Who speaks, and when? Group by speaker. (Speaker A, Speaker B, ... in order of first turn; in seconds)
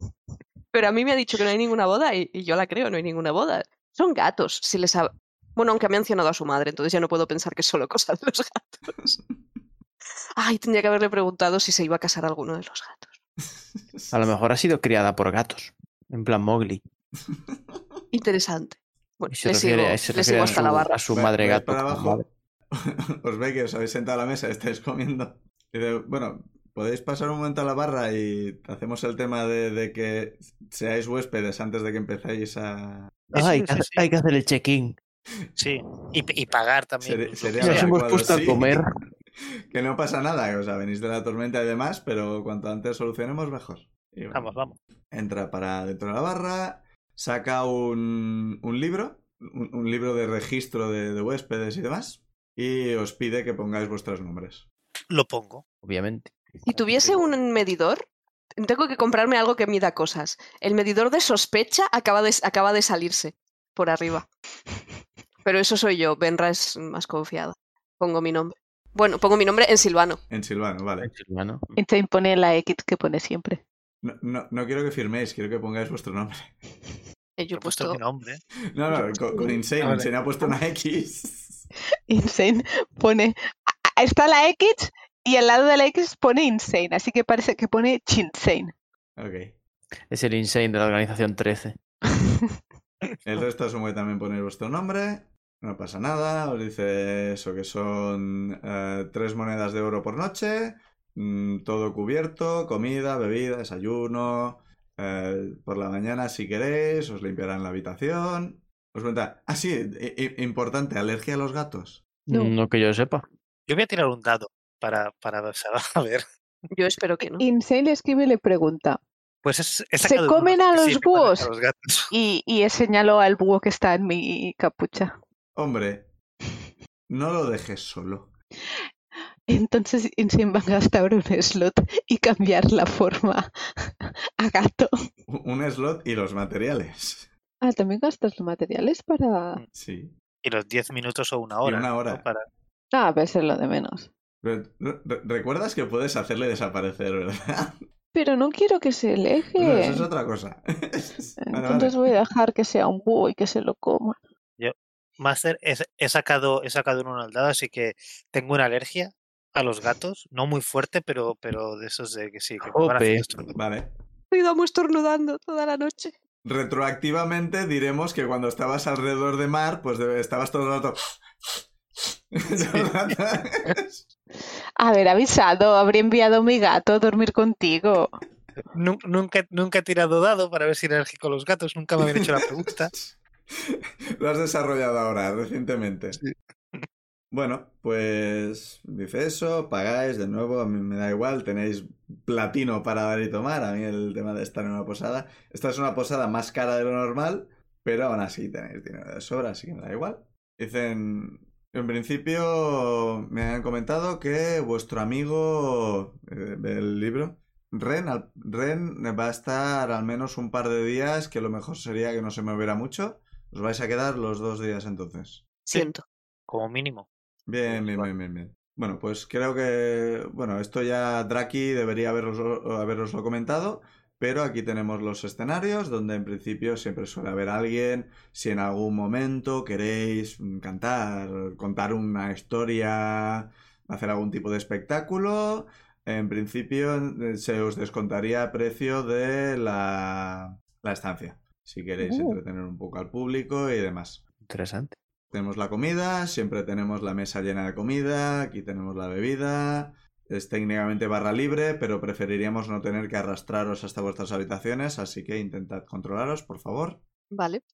Speaker A: 0.7-9.2, 10.4-13.2, 18.1-20.9, 56.6-58.0, 58.6-64.3, 65.4-70.2, 77.4-78.0, 116.7-117.4, 164.3-166.1, 215.7-216.0, 257.3-257.6
Speaker B: 13.8-14.2, 17.3-17.6, 21.1-33.1, 37.0-38.8, 39.7-44.5, 45.1-54.6, 70.3-71.1, 74.0-76.5, 78.7-81.7, 89.2-89.5, 93.2-112.0, 125.5-126.1, 127.1-128.3, 135.3-137.3, 139.7-140.1, 141.6-142.2, 144.4-147.8, 149.6-152.0, 163.5-163.9, 166.4-171.5, 172.0-174.0, 182.1-186.2, 187.3-215.4, 217.5-244.2, 245.3-257.0
Speaker C: 14.1-16.8, 19.3-22.2, 33.3-35.0, 37.6-38.9, 55.8-57.3, 71.0-71.7, 90.1-91.8, 112.3-113.2, 162.7-163.4, 244.4-244.9
Speaker D: 33.3-34.1, 35.6-38.5, 44.3-44.8, 55.1-55.6, 77.5-78.4, 79.8-80.1, 113.7-116.2, 119.4-122.1, 140.4-142.4, 154.6-163.5, 172.6-172.9, 178.7-182.9, 186.2-186.8, 216.5-217.1, 217.6-218.1
Speaker E: 71.8-73.6, 78.9-79.6, 82.1-88.7, 112.3-112.5, 117.3-119.0, 120.0-121.5, 122.1-125.1, 129.5-134.9, 137.6-139.6, 142.9-144.1, 148.1-150.1, 151.4-154.2, 174.8-178.1